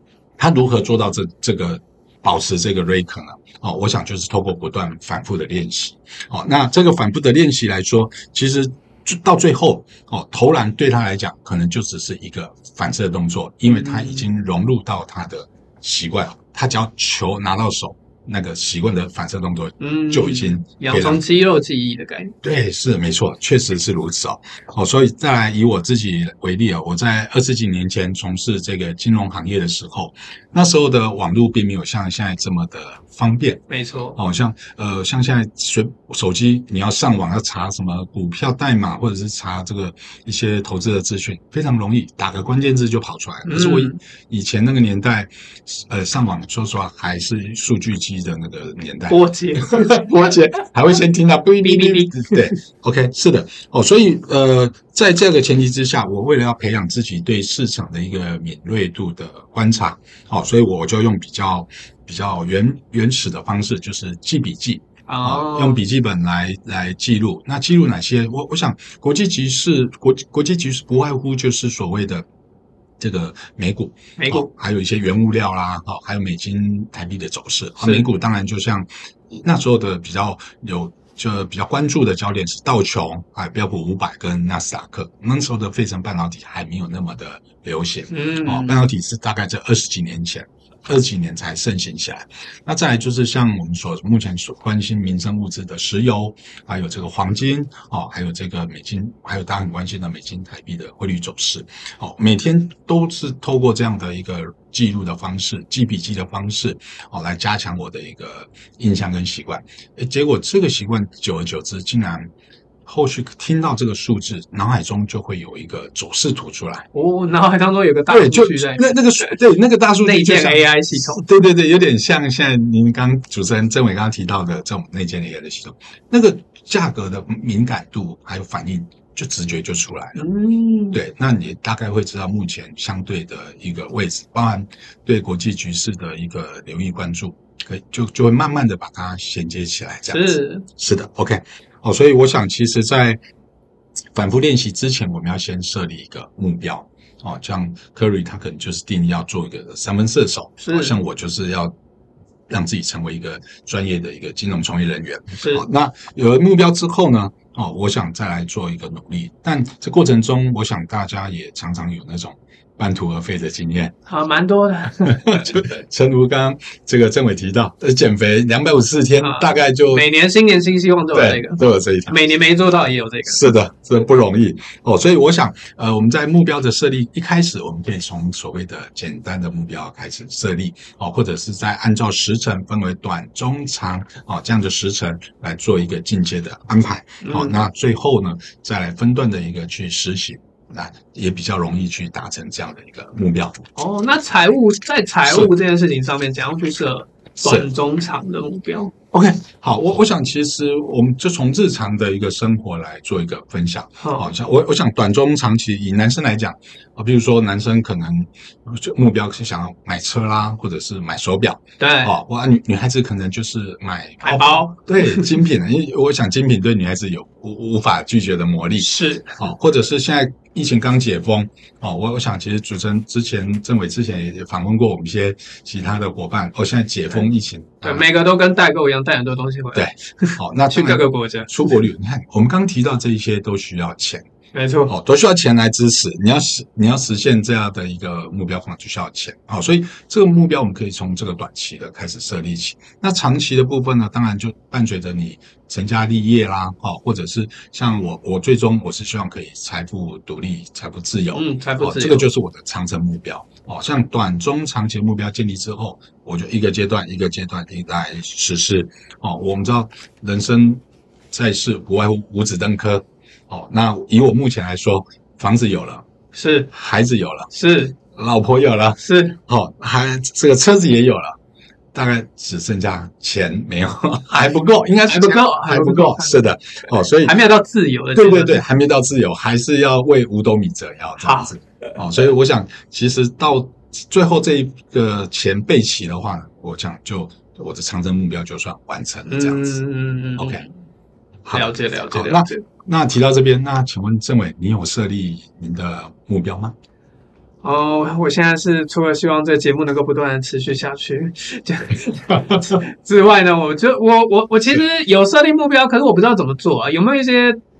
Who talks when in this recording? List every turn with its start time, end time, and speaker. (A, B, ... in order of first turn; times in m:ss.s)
0:00.4-0:21.2 A
0:13.7-0:14.2 B
0:19.8-0:22.4 B
0:22.4-0:33.6 A
0:33.7-0:34.2 B
0:34.1-1:12.2 A
0:43.4-0:44.0 B
0:49.1-0:50.1 B
0:51.6-0:52.5 B
1:05.1-1:05.8 B
1:13.0-1:52.3 A
1:14.2-1:14.5 B
1:17.8-1:18.1 B
1:28.1-1:28.8 B
1:52.8-1:56.8 A
1:56.9-1:59.4 B
1:58.1-2:10.2 A
2:00.0-2:01.2 B
2:10.2-2:11.0 B
2:10.9-2:23.2 A
2:20.1-2:20.7 B
2:24.1-2:31.7 A
2:30.6-2:31.0 B
2:32.5-2:43.9 A
2:35.4-2:35.6 B
2:44.1-2:45.6 B
2:45.0-2:50.1 A
2:49.2-2:53.5 B
2:51.1-2:52.2 A
2:53.2-3:13.6 A
3:07.2-3:07.6 B
3:13.7-3:18.9 B
3:15.2-3:15.5 A
3:17.4-3:17.7 A
3:19.1-3:48.1 A
3:31.8-3:32.1 B
3:34.2-3:35.4 B
3:38.8-3:39.4 B
3:47.8-3:51.8 B
3:49.7-3:54.2 A
3:54.5-3:54.9 B
3:54.9-4:26.0 A
4:11.3-4:12.3 B
4:26.3-4:26.7 B
4:26.7-4:27.5 A
4:27.5-4:27.9 B
4:28.1-4:31.3 A
4:29.0-4:29.4 B
4:31.9-4:37.4 A
4:35.0-4:36.4 B
4:37.2-4:38.6 B
4:38.1-4:49.8 A
4:41.2-4:41.5 B
4:49.3-4:50.6 B
4:50.4-4:50.6 A
4:51.4-4:56.7 A
4:51.5-4:52.6 B
4:57.6-5:07.6 B